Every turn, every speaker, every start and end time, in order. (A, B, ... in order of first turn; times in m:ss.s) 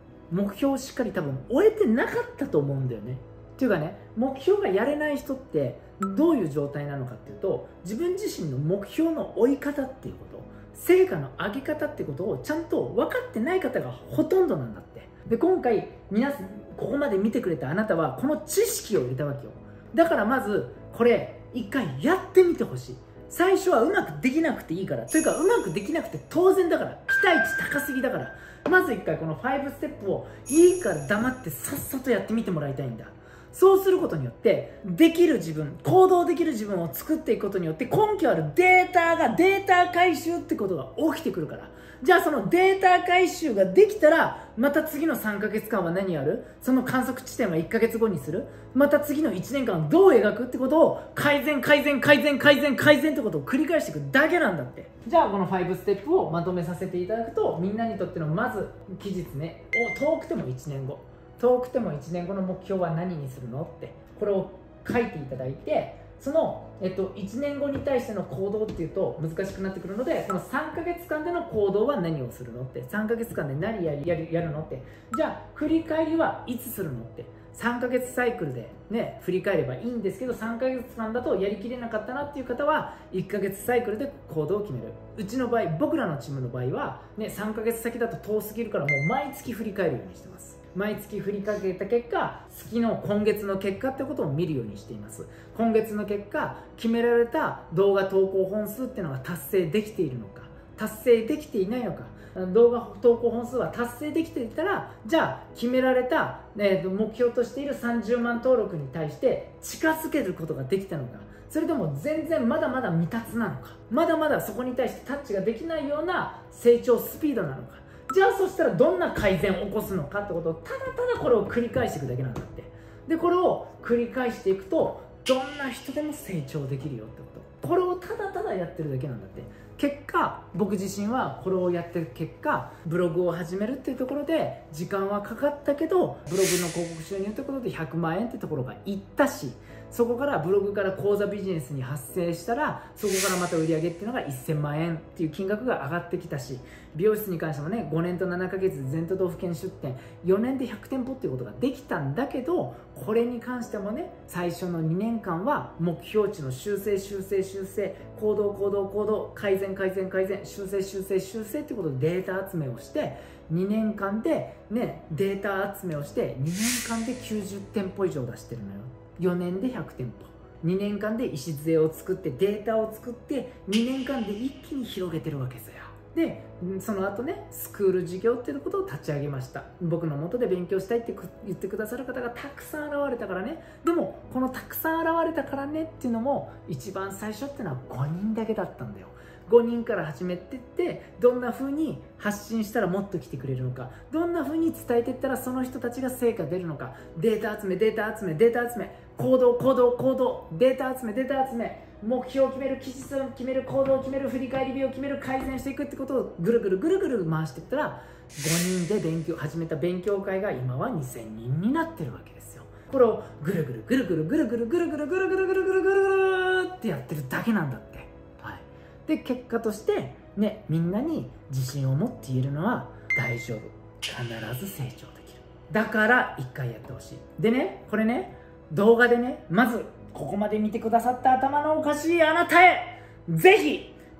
0:00.3-3:54.0 A